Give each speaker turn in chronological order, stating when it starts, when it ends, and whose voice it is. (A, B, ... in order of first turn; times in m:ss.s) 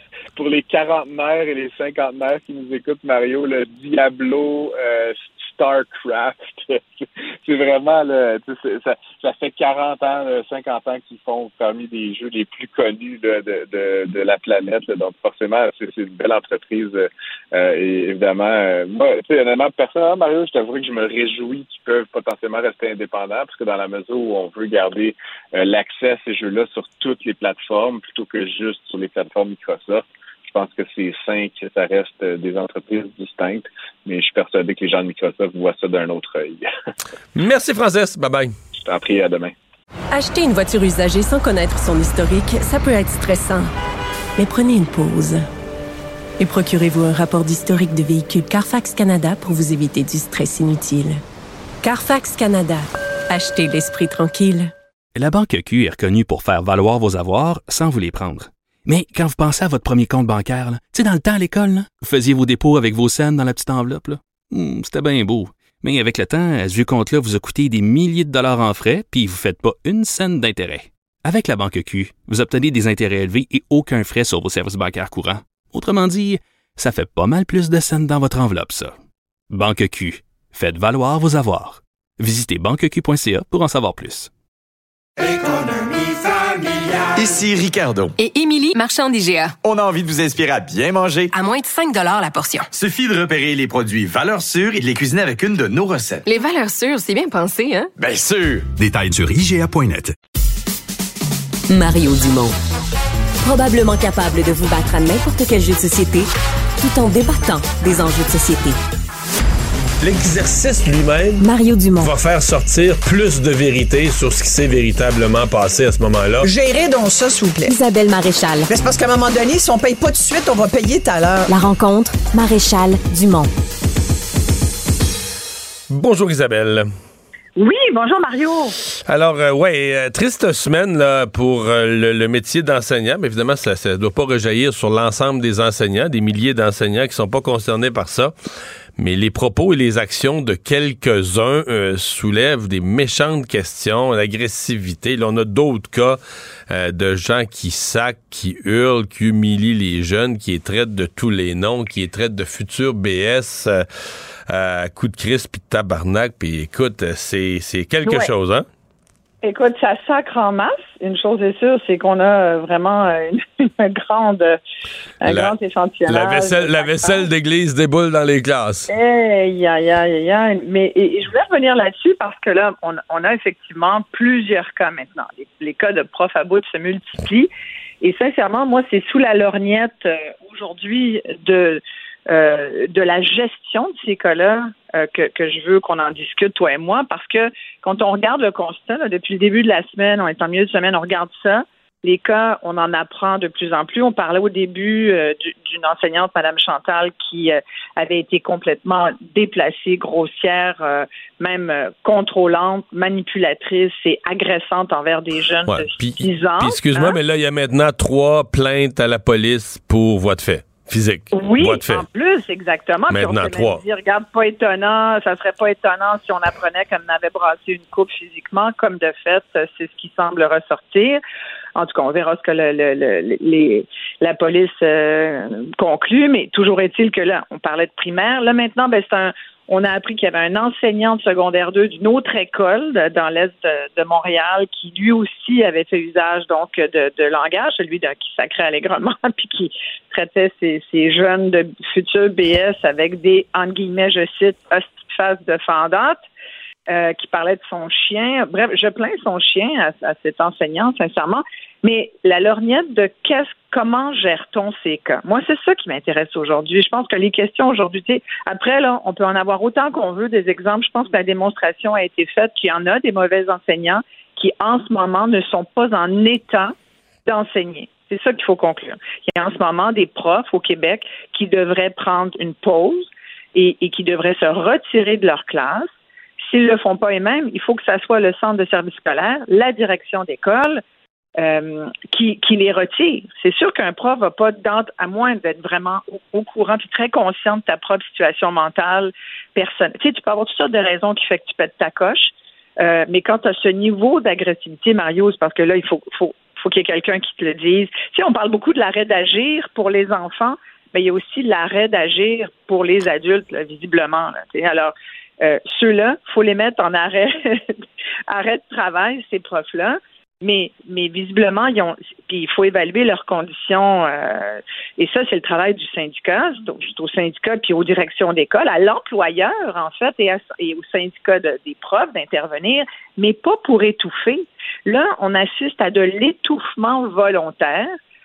0:00.3-0:36.7 A
0:37.3-0:38.5 B
0:38.8-0:39.5 A
0:40.1-0:43.7 C
0:44.4-0:45.4 C
0:46.4-0:51.2 C
0:51.8-0:54.7 C
0:55.1-1:19.0 D
1:19.5-1:24.3 D
1:27.1-1:28.1 E
1:28.2-1:29.5 F
1:29.6-1:31.3 E
1:31.3-1:32.6 G
1:32.7-1:36.2 E
1:36.2-1:37.9 F
1:38.0-1:40.1 E
1:41.7-1:42.5 G
1:43.4-1:46.3 G
1:46.8-1:48.8 G
1:50.0-1:51.4 B
1:51.4-1:52.1 G
1:52.0-1:56.5 B
1:56.4-1:57.8 H
1:57.6-1:58.7 G
1:58.7-2:01.5 H
2:01.5-2:03.5 G
2:05.9-2:06.9 B
2:07.6-2:08.7 I
2:09.0-2:18.3 B
2:19.0-2:33.8 B
2:34.5-2:38.6 B
2:38.0-2:38.3 I
2:39.4-2:44.6 I
2:45.2-2:47.3 I
2:45.3-2:45.5 B
2:46.1-2:48.9 B
2:48.9-2:57.5 I
2:58.0-3:27.2 I
3:25.7-3:32.0 B
3:31.3-3:41.2 I
3:33.1-3:33.8 B
3:41.8-4:06.2 I
4:06.9-4:26.7 I
4:27.2-4:35.9 I
4:36.4-4:40.8 I
4:41.4-5:07.7 I
5:08.3-5:27.9 I